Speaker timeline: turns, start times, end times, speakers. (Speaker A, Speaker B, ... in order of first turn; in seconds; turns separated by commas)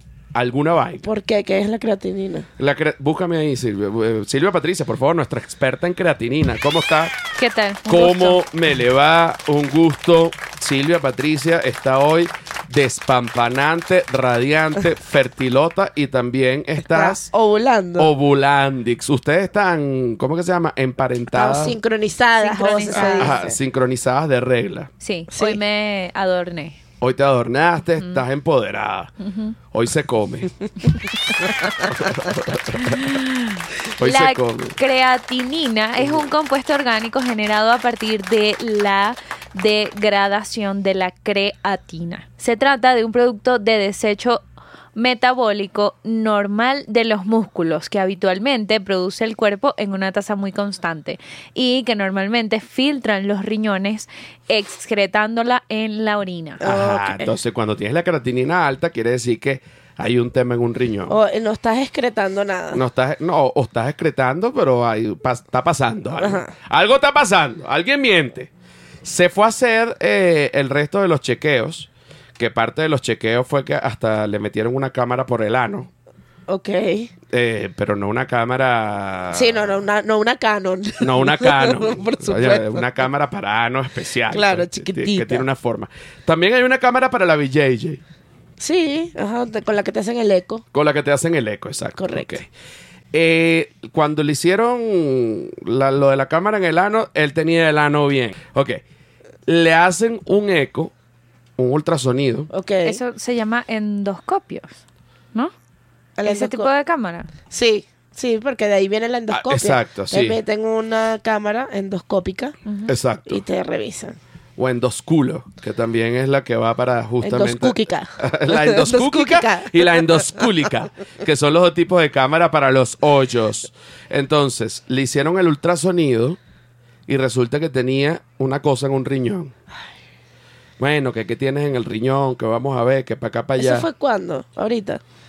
Speaker A: 0.3-1.0, Speaker B: 1.0-2.5, Speaker A: 2.6-7.2, Speaker C: 7.4-8.4, Speaker A: 7.8-17.3, Speaker B: 16.8-18.1, Speaker A: 18.0-21.8, Speaker B: 21.3-23.6, Speaker C: 22.4-23.4, Speaker A: 22.9-24.9, Speaker C: 25.0-26.8, Speaker B: 25.3-25.6, Speaker A: 27.0-29.1, Speaker C: 29.2-29.6, Speaker A: 29.7-30.5, Speaker C: 31.4-31.8, Speaker A: 31.9-33.2, Speaker C: 32.8-44.4, Speaker A: 34.0-34.8, Speaker A: 36.0-36.3, Speaker C: 44.9-56.6, Speaker B: 56.6-57.3, Speaker A: 56.6-61.1, Speaker B: 61.1-62.8, Speaker A: 62.7-68.5, Speaker B: 66.2-66.5, Speaker A: 69.0-75.9, Speaker B: 76.5-77.1, Speaker A: 77.3-79.8, Speaker B: 79.3-82.8, Speaker A: 81.0-88.0, Speaker B: 84.3-85.5, Speaker B: 88.6-90.6, Speaker A: 90.7-92.5, Speaker B: 92.0-92.4, Speaker A: 93.1-98.8, Speaker A: 99.5-100.9, Speaker A: 101.6-102.5, Speaker B: 102.5-103.0, Speaker C: 102.8-104.8, Speaker B: 106.2-106.7, Speaker C: 106.2-107.3, Speaker B: 107.5-112.5, Speaker A: 109.3-110.4, Speaker C: 112.7-112.9, Speaker A: 112.9-113.4, Speaker B: 113.3-114.2, Speaker A: 114.6-126.4, Speaker B: 117.2-120.2, Speaker A: 127.1-129.5, Speaker A: 130.8-133.9, Speaker B: 133.6-135.0